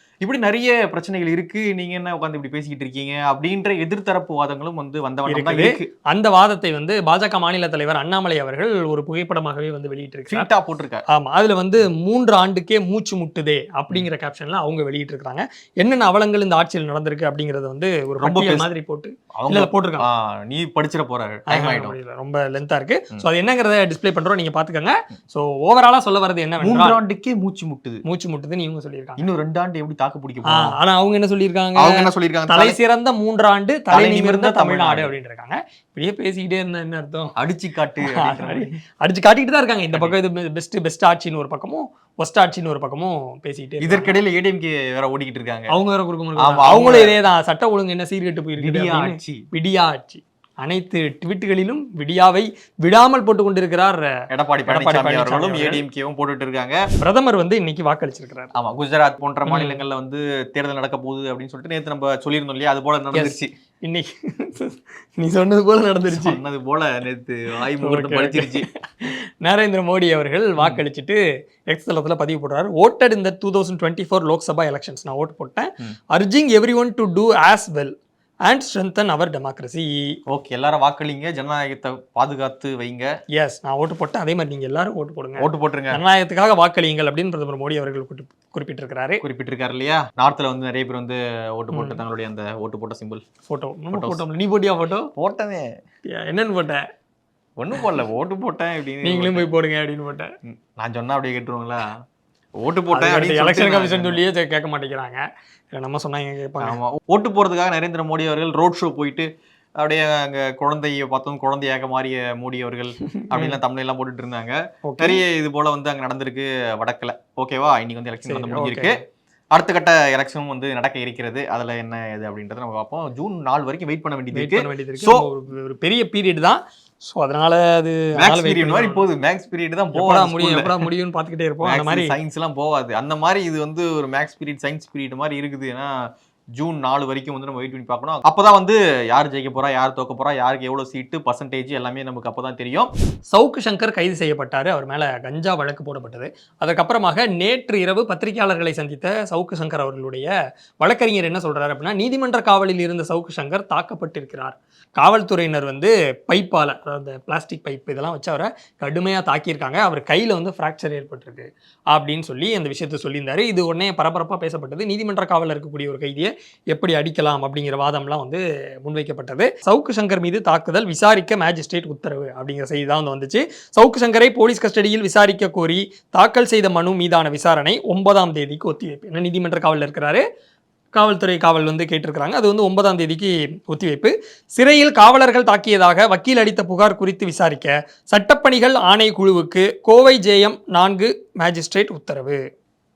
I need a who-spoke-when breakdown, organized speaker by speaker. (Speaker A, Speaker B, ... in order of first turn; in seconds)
Speaker A: 0.2-5.9, 10.3-11.0, 18.2-18.7, 19.4-21.9, 26.6-28.0, 29.2-30.7, 31.8-32.8, 33.9-35.1, 37.4-38.7, 43.8-45.7, 46.4-47.2, 48.6-49.4, 54.3-56.8, 58.5-63.5, 66.1-68.7, 80.3-83.1, 85.4-86.0, 89.2-93.2, 93.9-94.2, 95.2-95.7, 97.6-99.5, 100.5-101.8, 102.6-104.2, 106.6-109.3, 109.8-119.0, 119.5-125.2, 128.2-130.8, 131.6-135.9, 136.6-142.9
Speaker B: 5.2-10.5, 11.1-20.1, 21.5-27.0, 28.1-29.2, 30.4-37.3, 38.2-44.1, 45.7-54.1, 54.7-55.8, 57.0-58.5, 59.5-59.8, 63.1-66.4, 67.8-71.2, 71.7-77.9, 78.5-79.9, 83.3-89.2, 91.7-92.0, 93.5-95.1, 96.1-96.8, 99.0-100.3, 102.9-105.2, 105.7-106.8, 113.0-113.6, 114.8-115.2, 118.2-119.0, 124.3-129.0, 129.9-132.1, 143.3-150.3, 150.8-180.2, 180.9-192.4